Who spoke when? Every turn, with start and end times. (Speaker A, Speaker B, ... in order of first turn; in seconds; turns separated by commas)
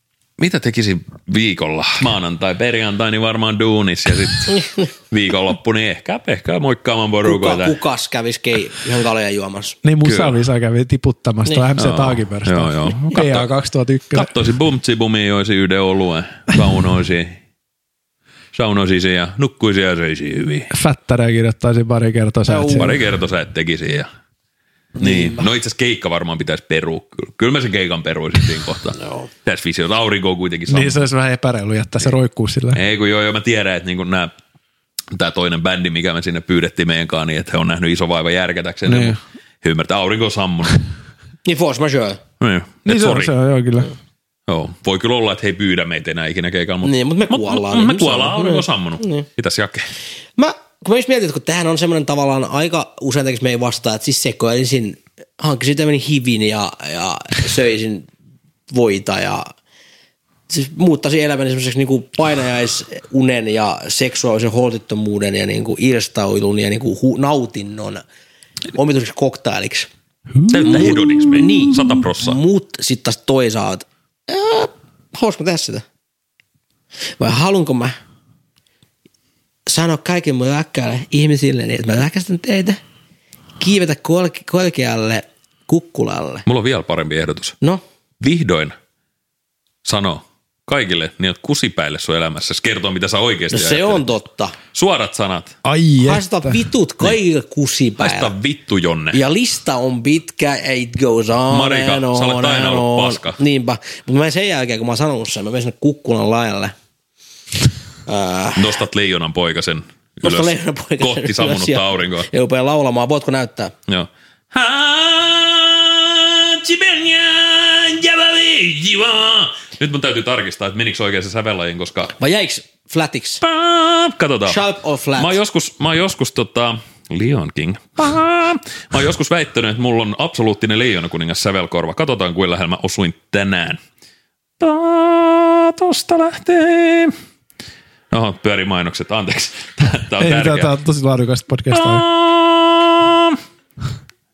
Speaker A: 0.4-7.8, Speaker B: 7.2-9.8, Speaker C: 9.8-14.3, Speaker A: 10.0-10.3, Speaker A: 11.8-13.5, Speaker A: 14.1-17.4, Speaker A: 18.5-20.7, Speaker C: 20.7-22.9, Speaker B: 22.5-22.9, Speaker A: 22.8-24.1, Speaker B: 25.0-25.4, Speaker A: 25.0-31.0, Speaker B: 29.0-29.3, Speaker C: 30.7-32.8, Speaker A: 32.7-34.3, Speaker A: 35.1-40.8, Speaker C: 38.9-39.2, Speaker B: 41.4-42.2, Speaker A: 42.4-43.3, Speaker C: 42.8-43.9, Speaker A: 44.5-49.9, Speaker B: 46.8-49.2, Speaker B: 50.4-58.1, Speaker B: 58.7-59.5, Speaker B: 60.5-68.0, Speaker B: 68.7-69.9, Speaker C: 70.3-71.7, Speaker A: 70.5-72.4, Speaker B: 70.6-75.8, Speaker B: 77.2-78.0, Speaker B: 79.7-82.8, Speaker B: 83.6-86.4, Speaker A: 86.5-87.5, Speaker A: 88.2-88.8, Speaker A: 89.8-94.0, Speaker B: 93.5-94.5, Speaker A: 94.7-95.6, Speaker C: 95.6-96.6, Speaker B: 96.0-98.3, Speaker A: 98.0-99.2, Speaker B: 99.1-106.7, Speaker A: 101.5-103.4, Speaker B: 108.0-108.8, Speaker A: 108.5-112.3, Speaker B: 110.2-113.7, Speaker A: 113.9-122.2, Speaker B: 122.2-123.4, Speaker A: 123.4-124.6, Speaker B: 124.5-125.4, Speaker A: 125.2-133.8, Speaker A: 134.6-137.2, Speaker A: 138.1-140.7, Speaker C: 140.2-142.0, Speaker A: 141.7-143.4